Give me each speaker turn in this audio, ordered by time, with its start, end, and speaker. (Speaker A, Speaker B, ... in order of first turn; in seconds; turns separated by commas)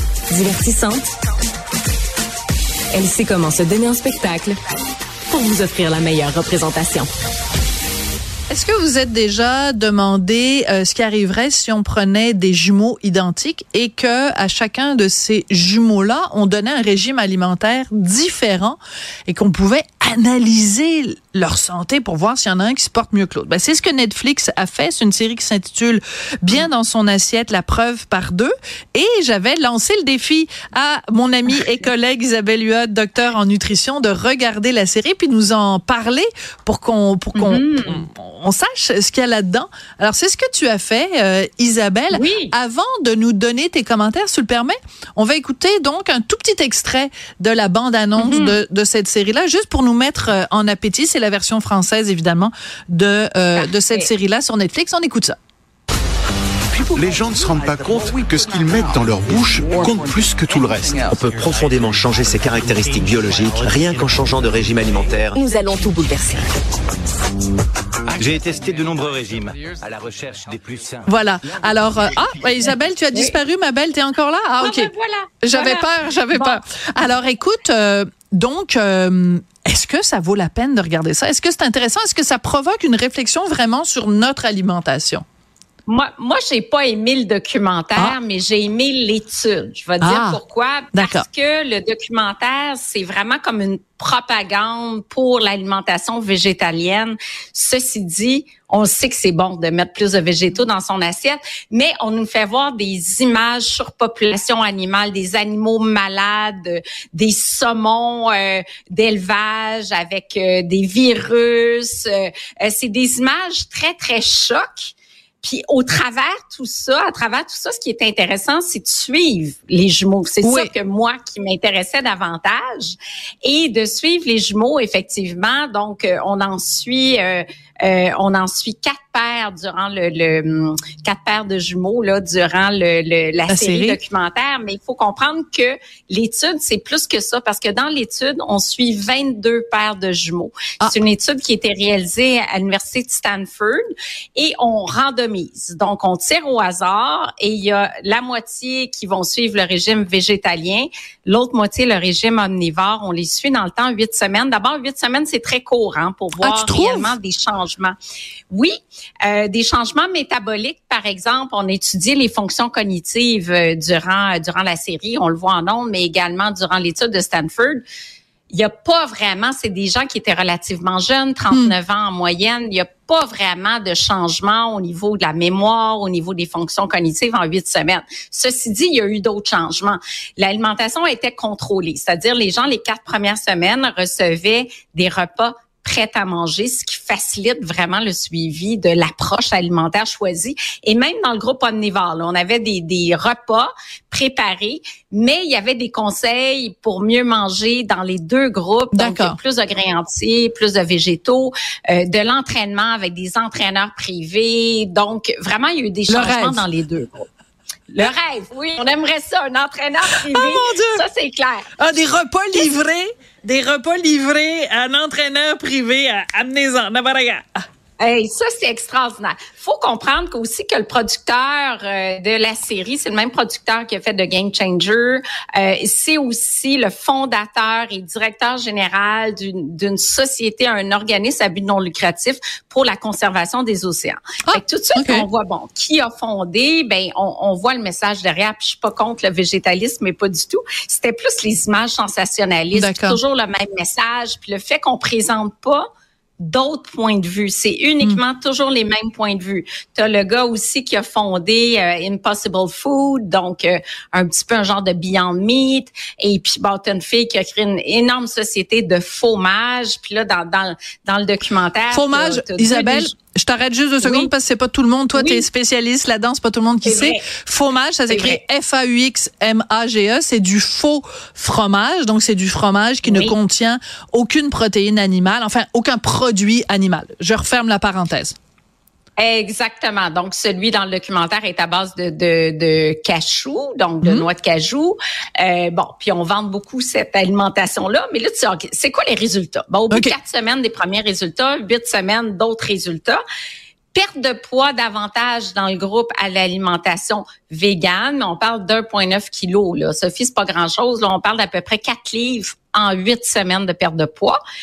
Speaker A: 0.4-0.6, Speaker B: 0.4-1.0, Speaker B: 2.9-4.5, Speaker A: 3.6-4.4, Speaker B: 5.3-7.0, Speaker C: 8.5-55.4, Speaker A: 37.3-38.1, Speaker A: 42.1-42.5, Speaker A: 48.2-48.6, Speaker A: 53.5-54.1, Speaker D: 56.7-61.1, Speaker E: 61.1-65.4, Speaker F: 63.2-63.7, Speaker B: 65.3-66.5, Speaker F: 68.1-71.0, Speaker C: 71.0-74.9, Speaker A: 74.6-76.6, Speaker C: 75.4-85.2, Speaker A: 85.9-143.8, Speaker C: 90.0-90.4, Speaker C: 90.9-91.2, Speaker C: 120.4-120.7, Speaker C: 133.5-134.0, Speaker A: 144.3-157.9, Speaker C: 156.4-157.1, Speaker A: 158.5-167.8, Speaker A: 168.5-207.3, Speaker C: 198.9-199.4, Speaker C: 206.1-206.6, Speaker A: 207.9-211.7, Speaker C: 210.1-211.0, Speaker C: 211.8-217.6, Speaker A: 218.0-245.8, Speaker C: 234.4-235.2, Speaker C: 242.7-243.2, Speaker A: 246.4-263.1, Speaker C: 261.9-278.4, Speaker A: 264.0-264.3, Speaker A: 265.1-265.4, Speaker A: 266.8-267.3, Speaker A: 268.1-268.4, Speaker A: 273.0-273.3, Speaker A: 279.2-293.2, Speaker C: 284.0-284.3, Speaker C: 289.9-290.1, Speaker A: 293.9-304.4